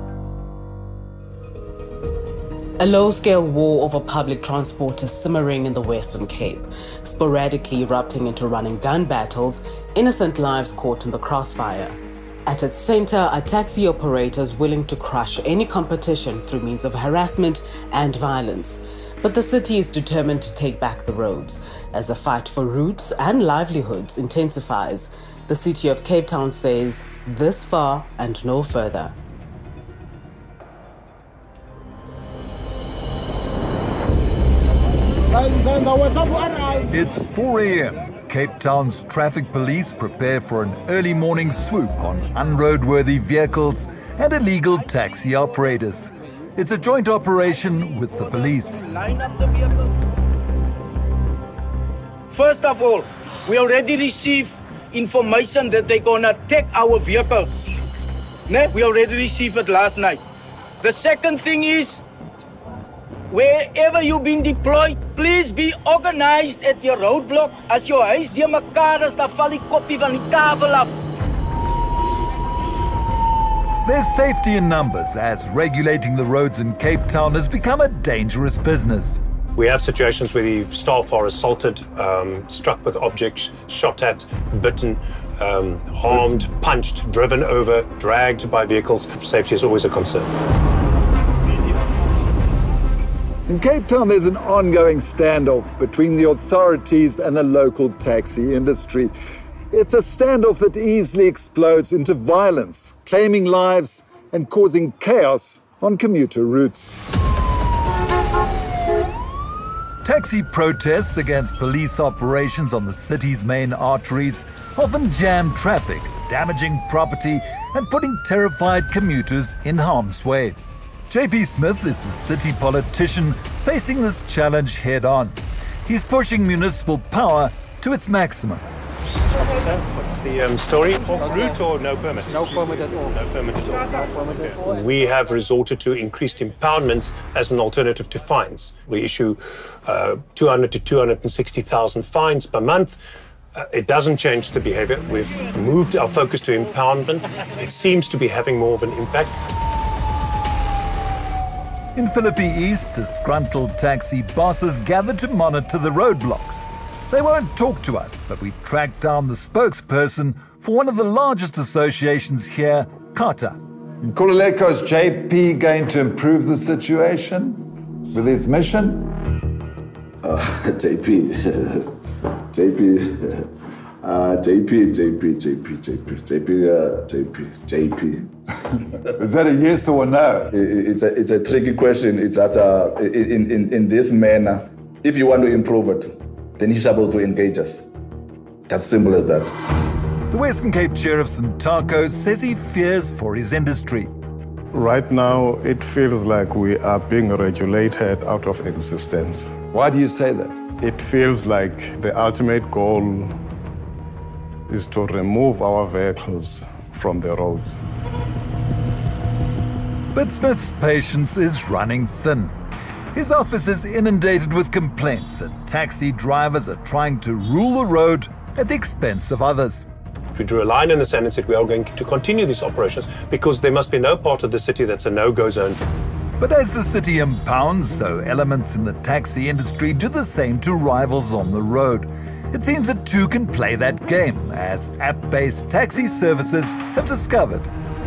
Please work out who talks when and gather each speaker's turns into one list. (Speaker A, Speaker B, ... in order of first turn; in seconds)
Speaker A: 2.8-29.1
Speaker B: 36.9-48.9, 73.8-79.2, 110.0-120.6, 121.1-128.6, 151.9-163.6, 190.3-194.1, 210.1-212.5, 213.1-219.9, 226.4-237.7
Speaker C: 48.9-49.9, 52.3-57.7, 58.5-60.2, 60.8-62.0, 63.3-70.9
Speaker D: 79.5-90.3, 129.5-143.0, 143.6-149.3, 220.3-225.8
Speaker E: 93.5-99.1, 99.7-106.9, 164.0-167.6, 168.1-169.1, 179.2-180.5, 199.7-200.5
Speaker F: 170.2-171.9, 172.5-173.5, 174.0-178.3, 180.5-187.9, 188.7-189.5
Speaker G: 194.7-199.5, 200.8-203.3, 204.7-207.8